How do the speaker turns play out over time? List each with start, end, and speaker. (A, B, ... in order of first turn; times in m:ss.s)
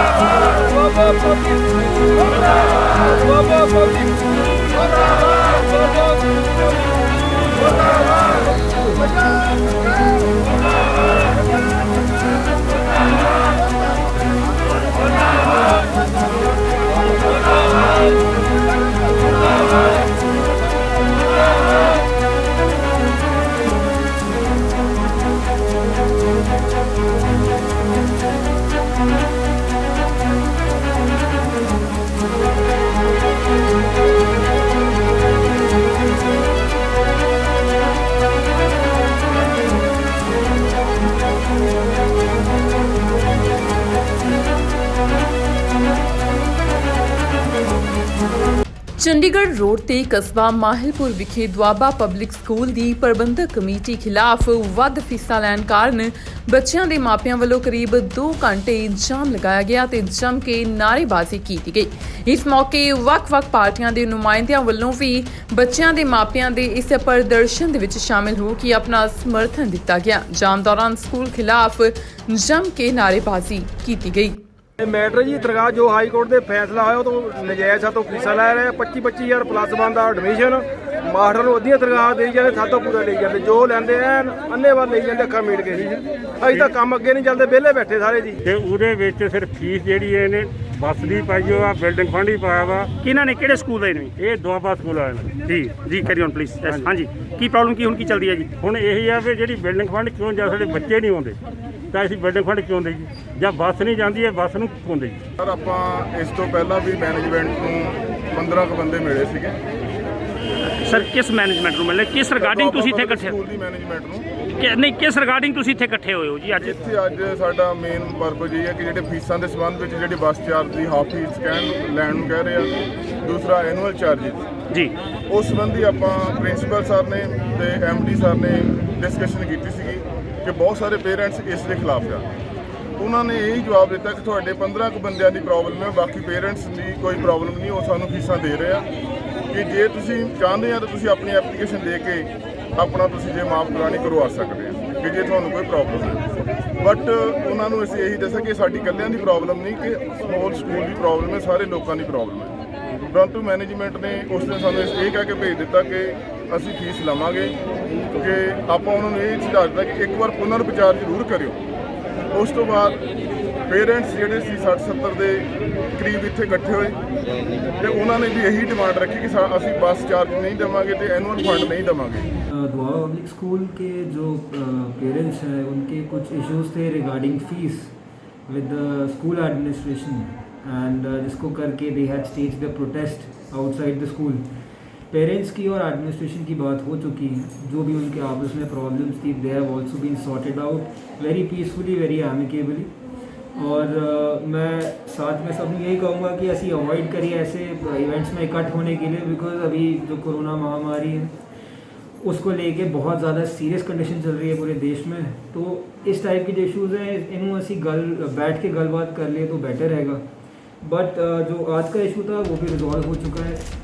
0:00.5-0:01.6 A
0:03.2-0:04.2 A
0:49.0-1:14.4 B
1:14.8-1:28.4 A
1:28.4-1:32.9 C
1:33.0-1:34.1 D
1:34.1-1:37.0 C
1:35.7-1:38.5 D
1:38.5-1:41.4 C
1:41.9-1:45.2 C
1:45.4-1:49.6 E
1:50.8-1:53.3 D
1:52.4-1:54.2 E
1:54.6-1:56.7 D
1:56.6-2:04.5 E
2:05.3-2:12.2 E
2:13.0-2:18.8 E
2:19.5-2:26.2 E
2:26.8-2:32.5 E
2:33.1-2:37.6 E
2:38.1-2:41.6 E
2:42.3-2:43.0 E
2:43.7-2:47.0 E
2:47.8-2:52.3 E
2:52.5-3:12.9 F
3:13.5-3:21.4 F
3:22.2-3:30.2 F
3:30.8-3:33.6 F